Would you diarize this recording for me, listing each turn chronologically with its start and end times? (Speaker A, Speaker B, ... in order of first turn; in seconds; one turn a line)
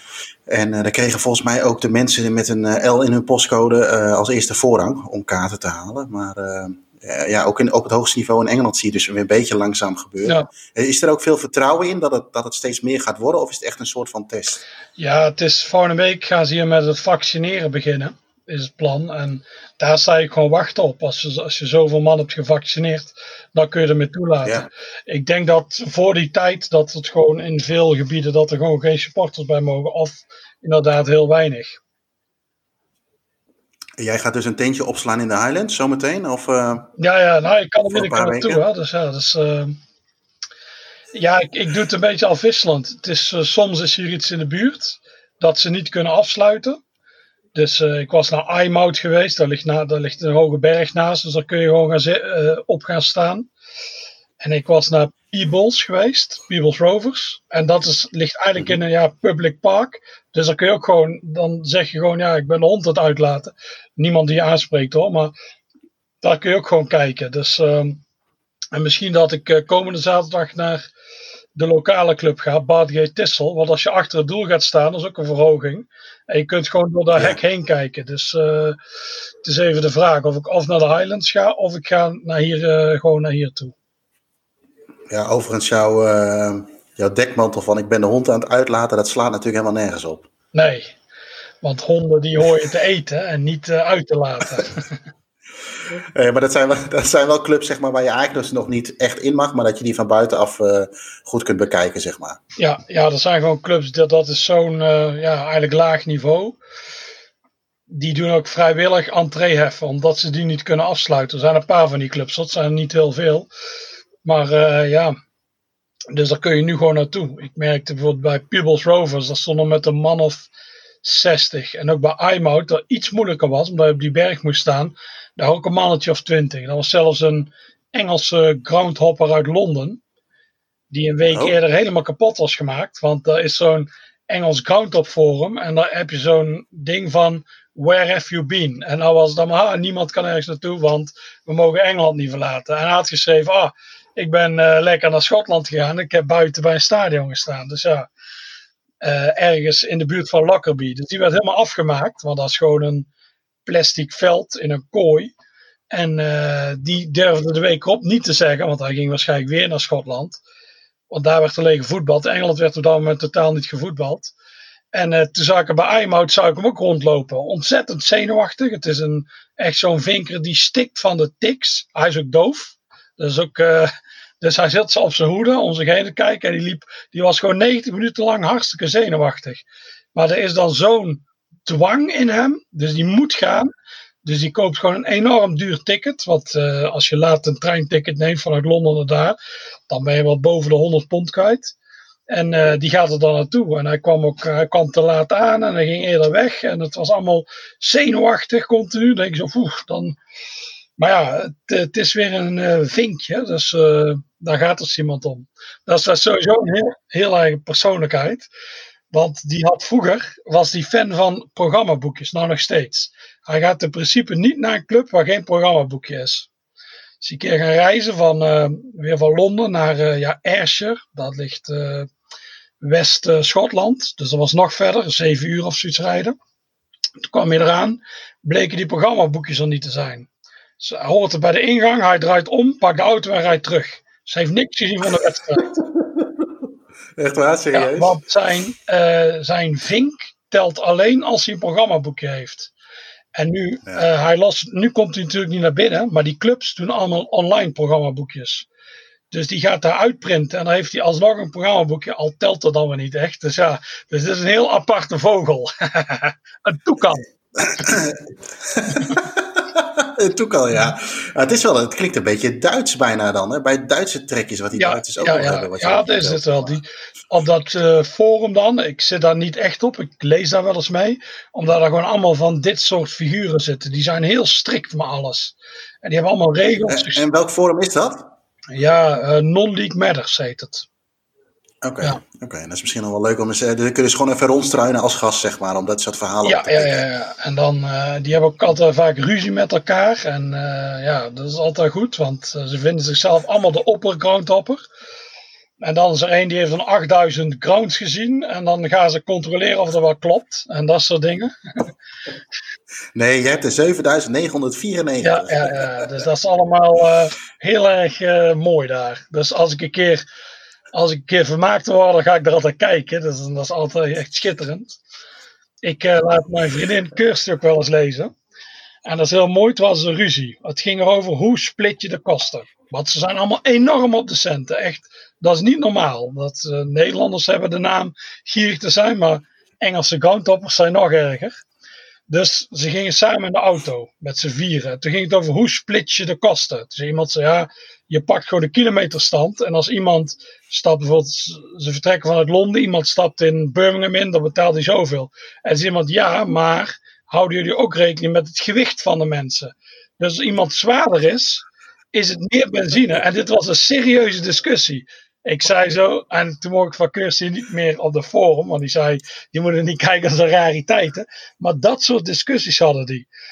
Speaker A: 0.5-14.6
Speaker B: 15.0-31.8
Speaker A: 34.0-36.9
Speaker B: 37.0-39.8
Speaker A: 37.9-38.6
Speaker B: 41.1-46.8
Speaker B: 47.5-53.5
Speaker B: 54.4-65.3
Speaker B: 66.2-68.0
Speaker B: 68.7-70.8
Speaker B: 71.5-78.8
Speaker B: 79.4-83.7
Speaker A: 85.1-90.3
Speaker B: 90.5-90.9
Speaker B: 91.6-94.9
Speaker A: 95.9-102.4
Speaker B: 102.6-106.6
Speaker B: 107.9-113.5
Speaker B: 114.2-115.1
Speaker B: 116.1-120.5
Speaker B: 121.0-130.0
Speaker B: 130.9-148.1
Speaker A: 131.3-131.6
Speaker B: 149.0-153.1
Speaker B: 153.6-155.3
Speaker B: 155.9-160.4
Speaker B: 161.1-164.3
Speaker B: 164.9-183.7
Speaker B: 184.2-189.4
Speaker B: 189.9-191.7
Speaker B: 192.3-200.2
Speaker B: 201.0-208.5
Speaker B: 209.1-216.5
Speaker B: 217.2-222.1
Speaker B: 222.8-226.3
Speaker B: 227.3-230.3
Speaker B: 230.8-235.8
Speaker A: 235.7-236.5
Speaker A: 237.2-238.2
Speaker B: 237.7-242.7
Speaker B: 243.3-248.7
Speaker B: 249.3-257.2
Speaker A: 257.6-266.5
Speaker B: 264.7-277.2
Speaker A: 276.9-278.3
Speaker B: 278.7-280.9
Speaker A: 281.8-287.0
Speaker B: 286.4-294.8
Speaker B: 295.8-301.5
Speaker A: 303.1-306.1
Speaker B: 305.2-310.2
Speaker B: 310.9-315.0
Speaker B: 315.8-318.3
Speaker B: 319.0-331.6
Speaker B: 332.3-363.3